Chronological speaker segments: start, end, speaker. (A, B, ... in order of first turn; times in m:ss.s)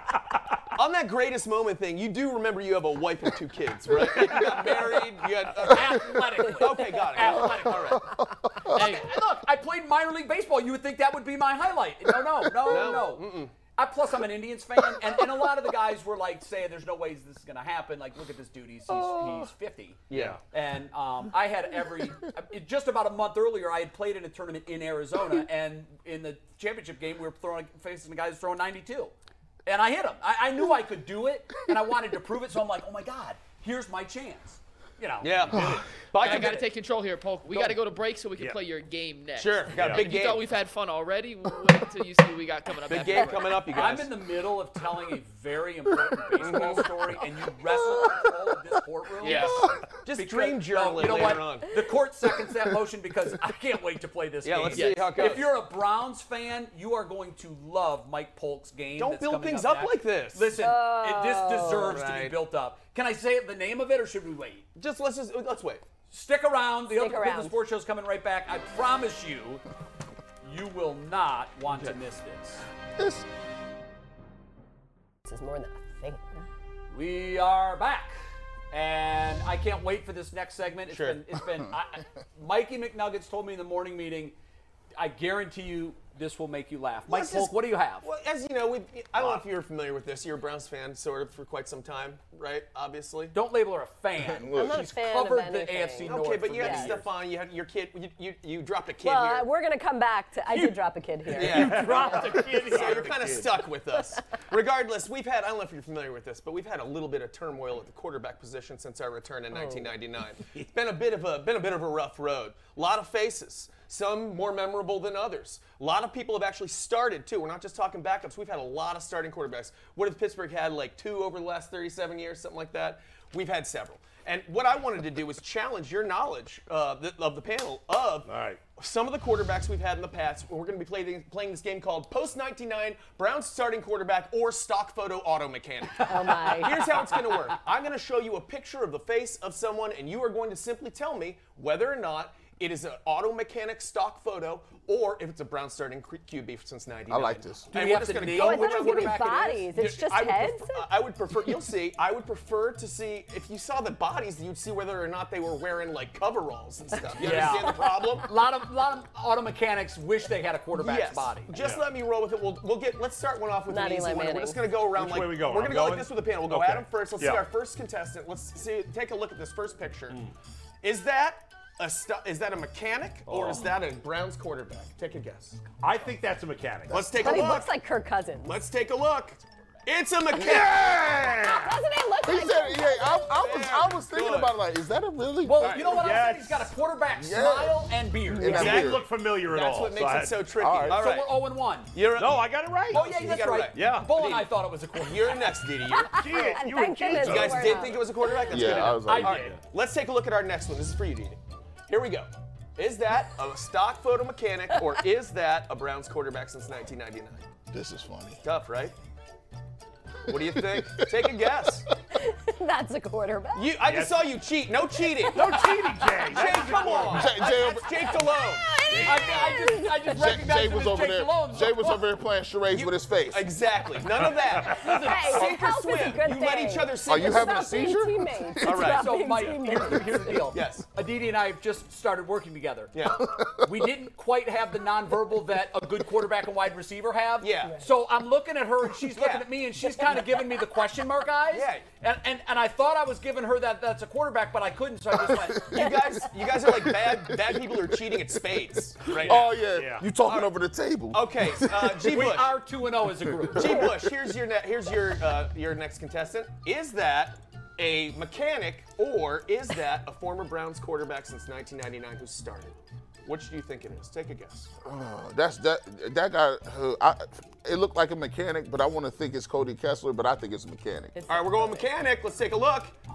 0:00.8-0:08.1 A
0:05.6-0:29.1 B
0:05.8-0:06.4 C
0:07.2-0:09.0 C
0:08.7-0:09.2 D
0:12.1-0:13.1 C
0:12.6-0:13.6 A
0:14.8-0:15.5 C
0:18.9-0:19.5 C
0:20.1-0:20.4 A
0:20.1-0:20.4 E
0:29.6-0:36.6 B
0:35.2-0:36.6 A
0:36.2-0:43.7 D
0:39.4-0:40.5 A
0:39.7-0:40.1 E
0:42.9-0:44.2 A
0:43.7-0:49.6 B
0:46.4-0:47.0 A
0:47.7-0:48.4 C
0:49.2-0:51.8 A
0:49.2-0:49.5 D
0:49.4-0:49.8 C
0:50.2-1:04.7 B
0:54.4-0:55.5 A
0:54.7-0:55.4 D
0:59.0-1:00.6 A
1:00.5-1:02.0 F
1:01.7-1:02.4 A
1:04.8-1:05.8 A
1:06.1-1:09.6 B
1:06.9-1:07.6 F
1:10.4-1:12.6 B
1:11.7-1:12.0 A
1:13.0-1:13.3 C
1:15.3-1:16.4 F
1:16.9-1:18.2 B
1:18.7-1:24.4 B
1:20.9-1:21.2 A
1:25.0-1:28.1 B
1:27.1-1:33.4 A
1:29.1-1:29.4 E
1:33.3-1:37.1 B
1:34.2-1:34.9 C
1:34.5-1:37.0 F
1:36.0-1:39.5 A
1:39.0-1:42.2 F
1:40.5-1:43.2 B
1:41.4-2:38.3 A
1:41.5-1:43.6 E
1:49.5-1:49.9 F
2:08.3-2:08.6 E
2:16.0-2:17.1 F
2:16.1-2:17.4 B
2:27.1-2:27.7 C
2:27.7-2:29.7 B
2:28.3-2:30.9 F
2:37.2-2:41.5 B
2:40.7-2:50.2 A
2:41.5-2:41.8 E
2:43.7-2:44.6 F
2:44.9-2:47.4 E
2:50.8-2:55.6 A
2:53.3-2:53.7 E
2:55.8-2:57.4 E
2:56.9-2:57.8 A
2:57.2-2:58.6 F
2:58.4-3:01.0 A
3:00.4-3:01.0 C
3:00.4-3:01.8 E
3:01.4-3:03.4 F
3:02.2-3:06.0 C
3:03.3-3:04.6 A
3:05.4-3:08.8 B
3:05.6-3:06.1 A
3:06.0-3:06.7 E
3:07.1-3:09.0 C
3:08.4-3:10.9 E
3:08.5-3:11.4 A
3:10.6-3:11.0 C
3:10.9-3:11.9 B
3:11.9-3:16.2 A
3:12.1-3:13.1 E
3:12.9-3:15.6 B
3:13.7-3:14.1 E
3:15.9-3:18.5 F
3:16.1-3:18.0 E
3:17.1-3:27.4 A
3:18.5-3:19.4 C
3:18.8-3:19.6 B
3:19.2-3:19.6 E
3:27.7-3:28.4 C
3:28.4-3:29.0 A
3:30.3-3:31.9 A
3:30.3-3:31.8 C
3:32.2-3:33.8 F
3:33.5-3:35.6 A
3:33.8-3:34.3 E
3:35.1-3:36.1 F
3:35.3-3:37.4 E
3:36.3-3:38.8 A
3:36.4-3:36.8 B
3:37.1-3:38.3 C
3:38.0-3:40.2 F
3:38.9-3:39.5 E
3:39.0-3:42.1 B
3:40.1-3:43.6 C
3:42.7-3:47.7 A
3:44.1-3:45.1 E
3:44.7-3:50.4 F
3:44.8-3:45.5 B
3:47.0-3:49.0 C
3:48.6-3:49.3 A
3:48.9-4:05.8 B
3:50.4-3:50.9 A
3:52.9-3:53.3 A
3:53.2-3:53.9 C
3:57.4-3:57.8 A
3:59.1-4:00.2 A
4:01.5-4:01.9 A
4:05.1-4:08.4 C
4:05.7-4:09.5 A
4:09.1-4:12.2 C
4:09.2-4:10.1 E
4:10.2-4:10.5 A
4:11.1-4:12.6 A
4:12.1-4:13.9 B
4:13.1-4:14.2 C
4:13.5-4:24.7 A
4:24.8-4:31.1 C
4:31.1-4:31.9 F
4:31.3-4:32.9 A